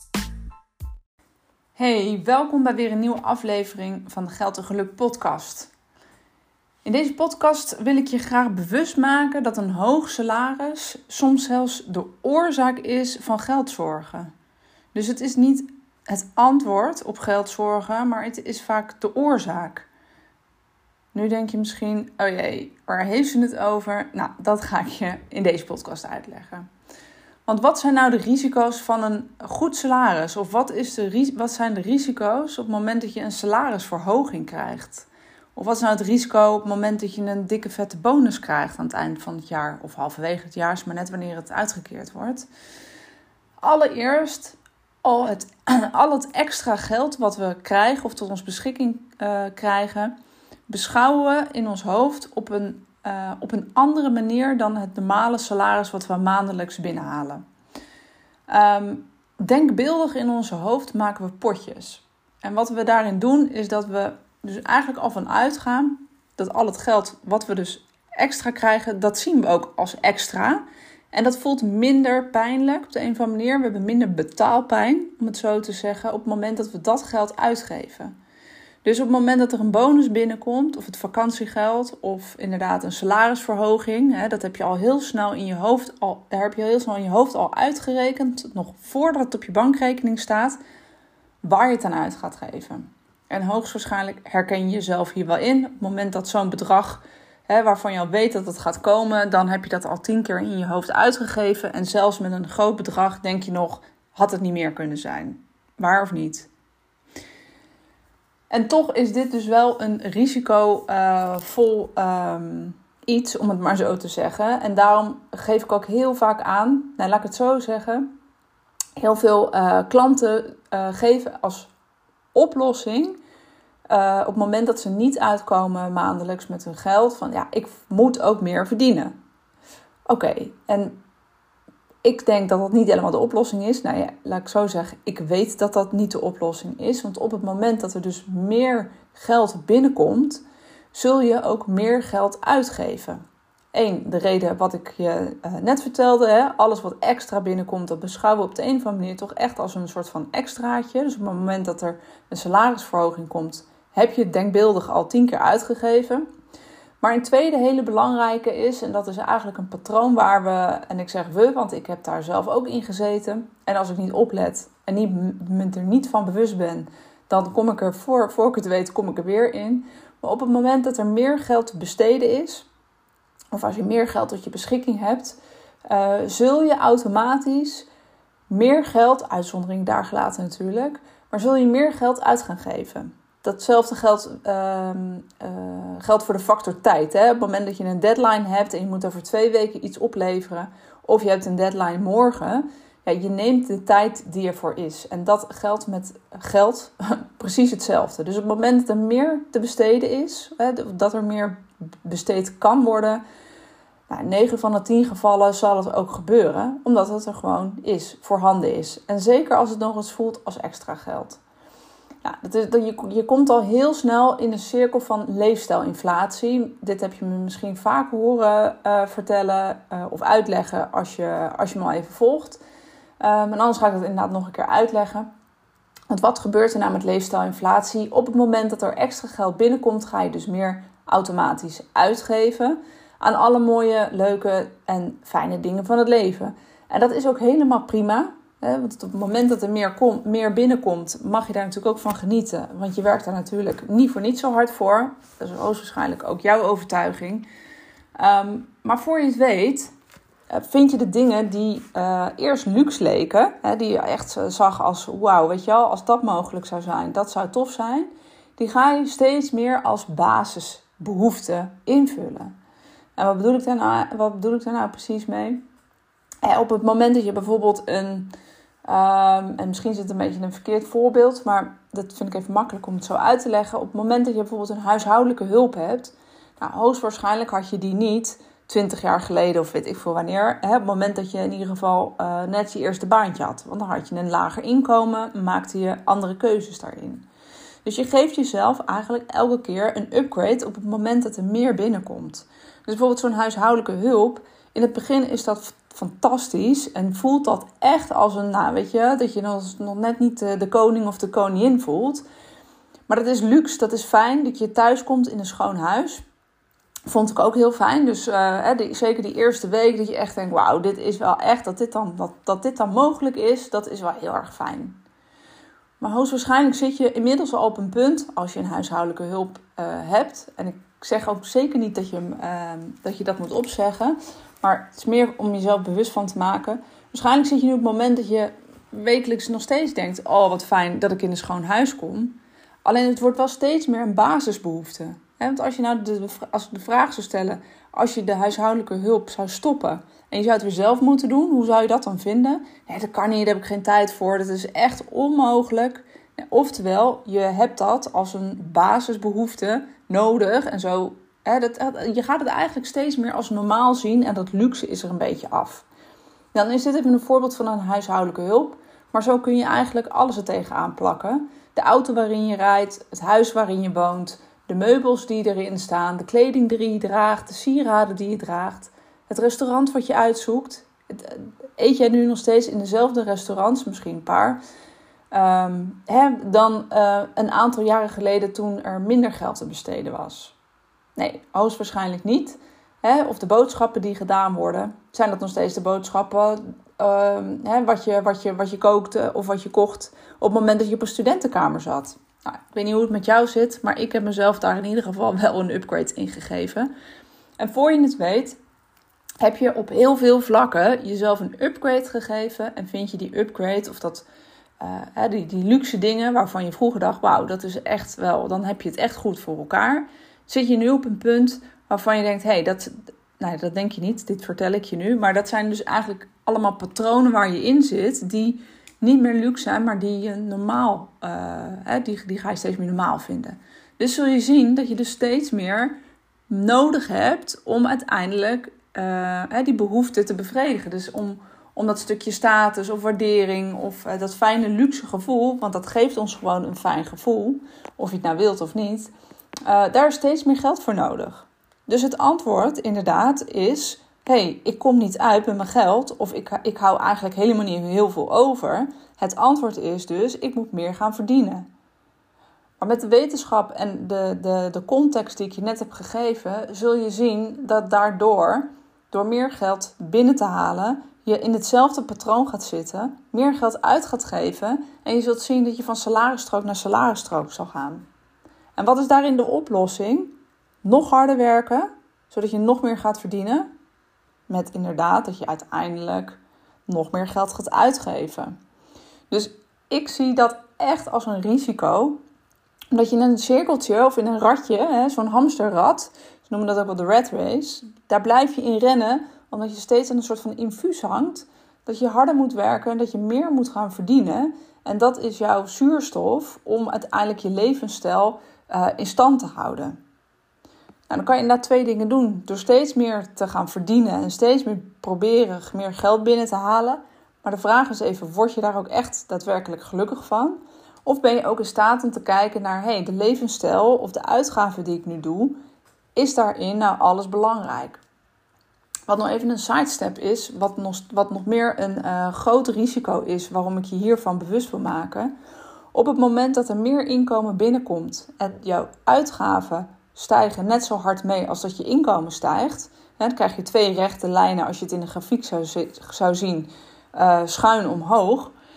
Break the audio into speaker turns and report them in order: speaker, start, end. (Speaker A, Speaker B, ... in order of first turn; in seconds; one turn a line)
Speaker A: 1.8-5.7
Speaker A: 6.8-14.3
Speaker A: 14.9-19.9
Speaker A: 21.1-26.7
Speaker A: 27.4-42.5
Speaker A: 43.6-50.1
Speaker A: 50.7-57.4
Speaker A: 58.5-78.1
Speaker A: 78.8-90.6
Speaker A: 91.4-106.5
Speaker A: 108.5-118.1
Speaker A: 119.0-121.7
Speaker A: 122.3-123.2
Speaker A: 123.9-129.2
Speaker A: 130.1-131.0
Speaker A: 132.0-143.2
Speaker A: 143.7-156.3
Speaker A: 157.0-172.7
Speaker A: 173.5-177.9
Speaker A: 178.5-203.2
Speaker A: 204.1-211.4
Speaker A: 212.2-222.6
Speaker A: 223.2-225.3
Speaker A: 226.1-247.4
Speaker A: 248.2-249.9
Speaker A: 250.5-262.5
Speaker A: 263.1-265.6
Speaker A: 266.4-268.3
Speaker A: 268.9-287.2
Speaker A: 287.8-302.2
Speaker A: 303.1-306.2
Speaker A: 307.1-315.0
Speaker A: 316.0-355.9
Speaker A: 356.5-374.6
Speaker A: 375.3-380.5
Speaker A: 381.1-396.9
Speaker A: 397.6-398.6
Speaker A: 399.4-404.2
Speaker A: 404.8-426.0
Speaker A: 426.5-439.1
Speaker A: 439.6-451.7
Speaker A: 452.8-468.1
Speaker A: 468.8-473.7
Speaker A: 474.5-478.5
Speaker A: 479.3-482.2
Speaker A: 482.9-500.0
Speaker A: 501.1-515.6
Speaker A: 516.1-518.0
Speaker A: 519.1-525.3
Speaker A: 525.9-538.5